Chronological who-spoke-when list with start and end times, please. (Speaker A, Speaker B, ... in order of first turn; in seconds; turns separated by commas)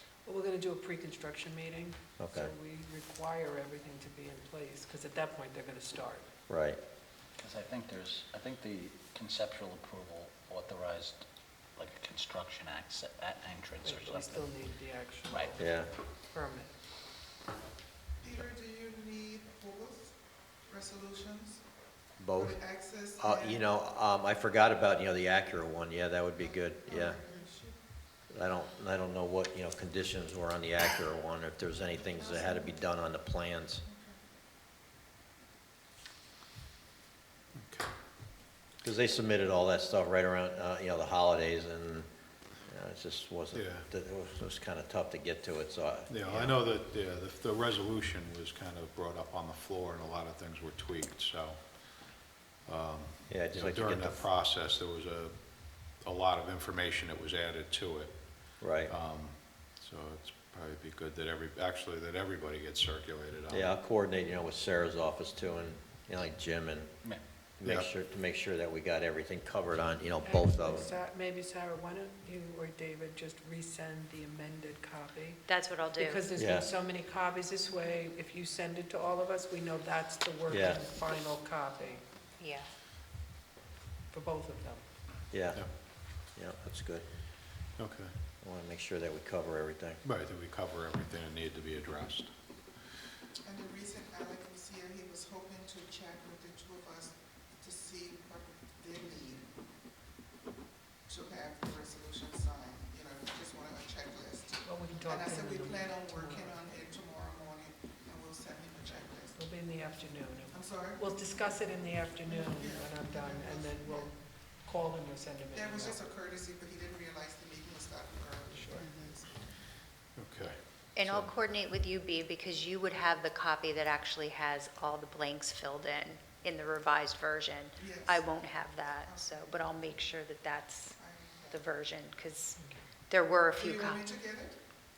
Speaker A: 0.2-6.3, Speaker B: 2.2-2.5, Speaker B: 6.5-6.8, Speaker C: 7.4-11.2, Speaker C: 11.8-14.5, Speaker A: 13.8-15.7, Speaker C: 15.3-15.5, Speaker B: 15.6-15.9, Speaker A: 16.3-16.7, Speaker D: 18.2-20.1, Speaker D: 20.7-21.6, Speaker B: 22.2-27.2, Speaker D: 22.4-23.6, Speaker D: 26.9-27.7, Speaker B: 28.3-33.8, Speaker E: 37.6-37.9, Speaker B: 38.8-42.1, Speaker B: 42.7-46.6, Speaker E: 43.5-43.9, Speaker E: 46.1-63.7, Speaker B: 53.3-54.2, Speaker B: 58.6-58.9, Speaker B: 63.5-66.9, Speaker B: 67.6-70.9, Speaker A: 70.2-82.0, Speaker F: 75.5-76.2, Speaker B: 76.4-76.7, Speaker B: 80.5-80.9, Speaker F: 82.4-82.7, Speaker A: 84.1-84.9, Speaker B: 85.3-87.1, Speaker E: 87.8-88.2, Speaker B: 88.4-90.0, Speaker E: 90.0-93.0, Speaker D: 93.5-99.4, Speaker D: 101.1-109.3, Speaker A: 104.6-106.6, Speaker A: 109.3-116.0, Speaker D: 110.6-111.0, Speaker D: 112.6-114.1, Speaker D: 115.6-119.4, Speaker A: 118.5-118.8, Speaker E: 120.2-121.3, Speaker F: 121.0-130.9, Speaker D: 127.8-128.3, Speaker D: 128.9-130.1, Speaker D: 131.0-131.6, Speaker F: 131.5-132.6, Speaker F: 133.1-134.0, Speaker D: 133.6-134.6